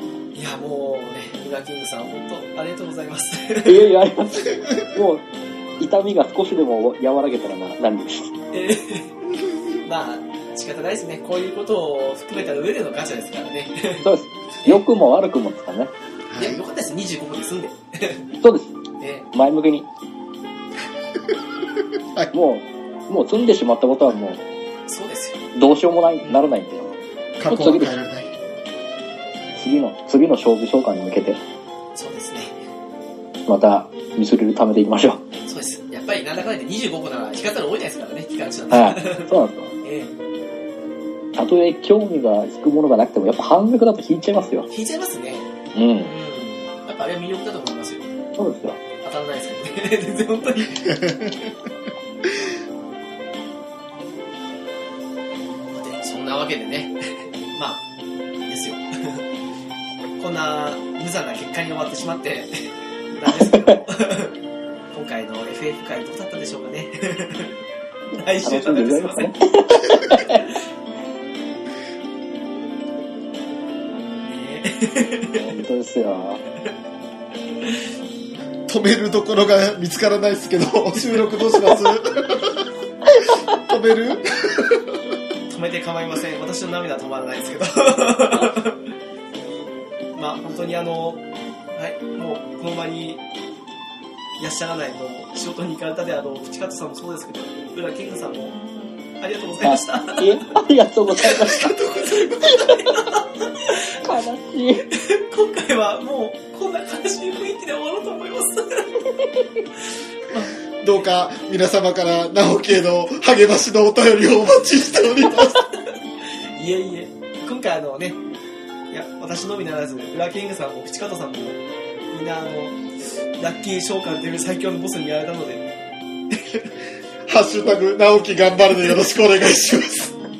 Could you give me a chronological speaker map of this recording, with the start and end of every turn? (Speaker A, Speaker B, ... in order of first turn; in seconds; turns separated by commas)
Speaker A: 0.3-3.9, Speaker B: 3.6-5.2, Speaker B: 5.8-8.3, Speaker A: 8.5-9.1, Speaker A: 9.8-14.1, Speaker B: 14.0-15.9, Speaker C: 16.3-16.6, Speaker A: 16.4-18.2, Speaker B: 18.4-18.7, Speaker A: 19.0-19.3, Speaker B: 19.3-19.9, Speaker B: 22.3-24.4, Speaker A: 24.9-25.4, Speaker B: 25.6-26.9, Speaker A: 26.2-26.5, Speaker C: 27.4-28.3, Speaker B: 27.5-27.9, Speaker B: 29.6-31.4, Speaker A: 31.9-32.5, Speaker B: 33.5-35.2, Speaker A: 35.4-40.1, Speaker B: 38.7-39.7, Speaker B: 41.3-44.7, Speaker A: 44.7-45.5, Speaker B: 45.8-46.1, Speaker A: 46.0-48.1, Speaker B: 48.4-48.8, Speaker A: 49.0-51.0, Speaker C: 50.9-51.5, Speaker A: 55.7-57.0, Speaker A: 57.5-57.9, Speaker A: 58.5-59.2, Speaker A: 60.2-64.3, Speaker B: 63.4-63.8, Speaker A: 64.9-67.5, Speaker A: 68.2-69.3, Speaker B: 68.4-70.5, Speaker A: 70.1-70.4, Speaker A: 74.3-75.5, Speaker B: 75.3-76.4, Speaker C: 78.7-85.0, Speaker A: 85.5-88.8, Speaker A: 90.2-93.2, Speaker A: 94.4-98.6, Speaker A: 99.2-100.7, Speaker B: 99.6-101.8, Speaker A: 101.2-104.2, Speaker C: 101.3-102.8, Speaker B: 103.9-104.9, Speaker A: 104.9-109.0, Speaker A: 110.3-110.5, Speaker C: 110.8-115.7, Speaker A: 116.6-118.2, Speaker A: 118.9-122.8, Speaker A: 123.4-125.7, Speaker A: 126.3-126.7, Speaker C: 127.3-130.1